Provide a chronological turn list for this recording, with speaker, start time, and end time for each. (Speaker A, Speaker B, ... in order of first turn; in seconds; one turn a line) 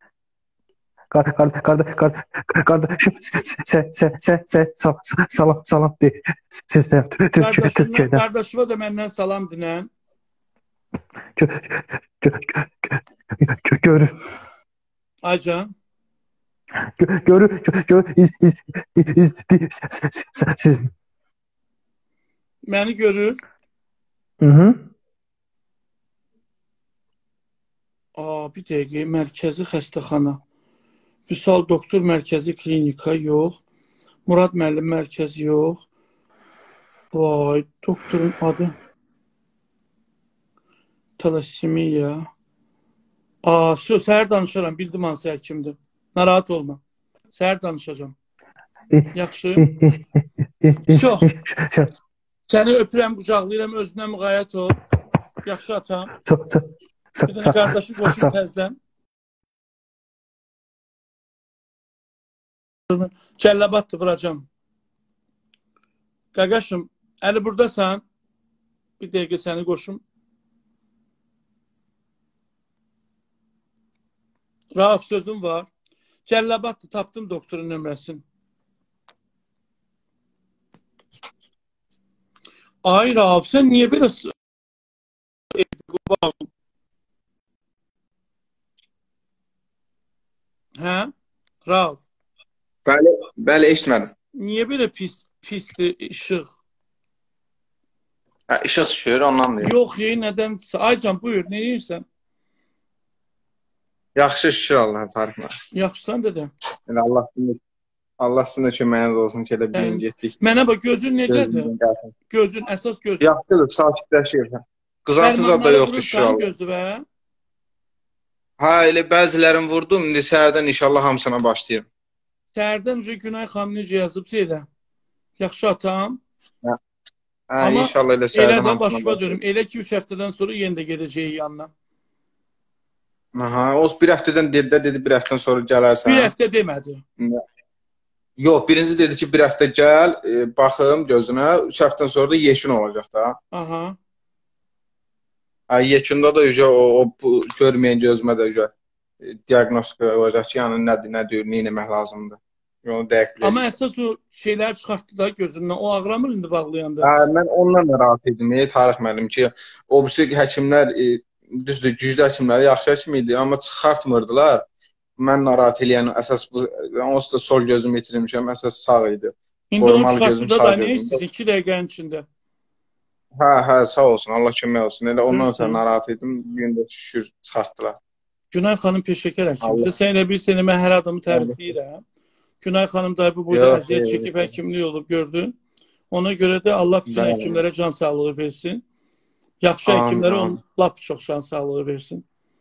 Speaker A: 1.1-8.2
Speaker B: 7.4-9.9
Speaker A: 11.4-14.2
Speaker B: 15.2-15.7
Speaker A: 16.8-20.9
Speaker B: 22.7-23.4
Speaker A: 24.4-24.9
Speaker B: 28.2-30.4
Speaker B: 31.3-33.6
Speaker B: 34.3-35.8
Speaker B: 37.1-38.8
Speaker B: 41.2-42.3
Speaker B: 43.4-46.8
Speaker B: 47.3-48.1
Speaker A: 48.9-51.9
Speaker B: 49.1-49.7
Speaker B: 50.9-51.3
Speaker B: 52.5-54.8
Speaker B: 55.4-56.1
Speaker A: 56.2-58.3
Speaker B: 57.3-58.8
Speaker B: 62.9-64.5
Speaker B: 66.3-68.0
Speaker B: 69.0-70.0
Speaker B: 74.8-75.7
Speaker B: 76.3-78.2
Speaker B: 82.8-84.3
Speaker B: 85.5-86.5
Speaker B: 90.8-91.1
Speaker B: 91.7-92.0
Speaker C: 92.9-94.1
Speaker B: 94.4-96.6
Speaker C: 98.5-99.8
Speaker B: 99.6-102.0
Speaker C: 104.2-105.6
Speaker B: 105.7-106.5
Speaker C: 106.9-107.6
Speaker C: 108.2-110.4
Speaker B: 109.7-111.7
Speaker C: 111.3-112.1
Speaker B: 112.3-113.3
Speaker C: 113.2-116.5
Speaker B: 115.2-117.0
Speaker C: 118.6-121.9
Speaker B: 122.5-124.7
Speaker B: 125.4-126.2
Speaker C: 127.5-129.4
Speaker B: 127.6-131.7
Speaker C: 133.4-136.3
Speaker B: 136.1-137.0
Speaker C: 138.4-143.4
Speaker B: 143.5-144.0
Speaker C: 145.7-153.7
Speaker B: 153.4-157.1
Speaker C: 157.0-164.6
Speaker C: 165.2-171.2
Speaker B: 169.7-172.2
Speaker C: 173.4-178.0
Speaker B: 175.3-175.8
Speaker B: 178.5-182.0
Speaker C: 179.6-179.9
Speaker C: 181.3-181.6
Speaker B: 182.6-185.5
Speaker C: 183.5-184.5
Speaker B: 186.1-188.8
Speaker C: 187.1-187.6
Speaker B: 189.6-192.2
Speaker C: 189.9-190.6